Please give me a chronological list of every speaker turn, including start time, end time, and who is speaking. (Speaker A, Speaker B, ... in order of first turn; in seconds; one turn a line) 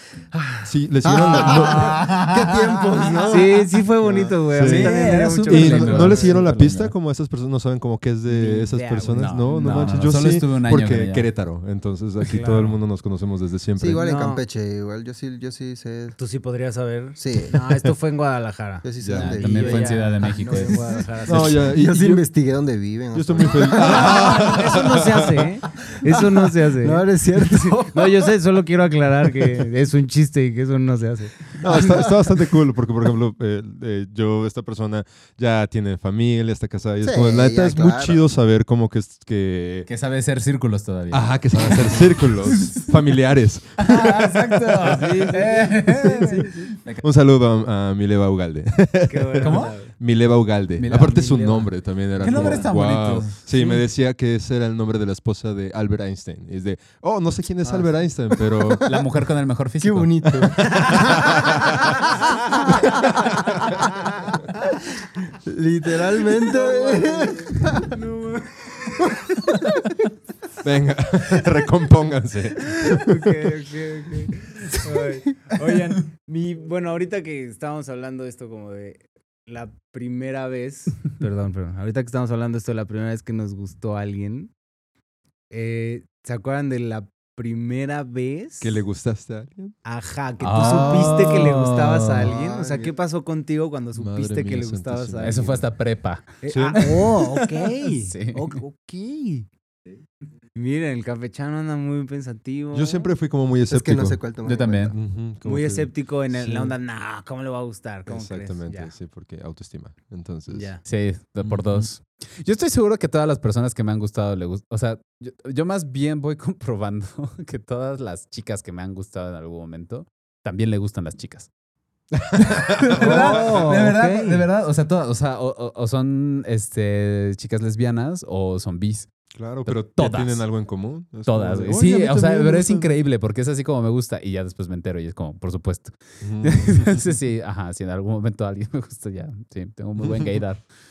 Speaker A: 0.3-3.6
Speaker B: 0.6-2.0
Speaker C: 1.6-3.0
Speaker D: 3.0-6.4
Speaker B: 4.0-14.0
Speaker C: 4.6-6.9
Speaker D: 8.2-9.3
Speaker C: 9.1-11.3
Speaker D: 12.2-12.8
Speaker A: 13.8-16.1
Speaker D: 14.0-14.4
Speaker D: 16.2-21.8
Speaker A: 17.1-17.6
Speaker A: 18.8-24.6
Speaker C: 19.0-21.0
Speaker B: 21.2-22.2
Speaker B: 23.1-25.5
Speaker D: 23.6-32.1
Speaker A: 26.8-28.3
Speaker B: 31.6-39.9
Speaker A: 37.0-38.2
Speaker C: 39.9-42.9
Speaker B: 41.1-45.2
Speaker C: 43.8-47.0
Speaker D: 44.8-46.7
Speaker B: 47.0-58.9
Speaker D: 49.1-49.9
Speaker C: 49.4-49.8
Speaker C: 50.8-51.2
Speaker D: 50.9-52.7
Speaker C: 52.2-53.8
Speaker D: 57.6-58.0
Speaker A: 58.6-58.8
Speaker C: 58.8-60.5
Speaker A: 59.8-61.5
Speaker B: 60.6-61.5
Speaker A: 65.4-68.0
Speaker D: 66.3-69.6
Speaker B: 70.6-73.3
Speaker D: 72.8-84.5
Speaker D: 85.5-88.8
Speaker B: 88.6-89.7
Speaker D: 89.8-95.6
Speaker C: 90.4-92.3
Speaker A: 92.2-93.0
Speaker B: 93.9-95.6
Speaker C: 95.2-97.5
Speaker D: 96.4-99.5
Speaker B: 96.5-96.8
Speaker C: 98.0-98.6
Speaker D: 100.5-103.1
Speaker B: 102.7-104.2
Speaker A: 103.7-104.9
Speaker C: 104.4-104.9
Speaker B: 104.9-106.7
Speaker D: 105.4-108.9
Speaker B: 108.1-110.8
Speaker D: 110.5-110.8
Speaker C: 110.8-121.5
Speaker B: 111.4-111.9
Speaker B: 122.3-123.9
Speaker C: 122.3-129.1
Speaker D: 122.9-124.5
Speaker B: 129.3-132.9
Speaker C: 129.6-130.5
Speaker C: 131.2-140.6
Speaker B: 136.2-137.1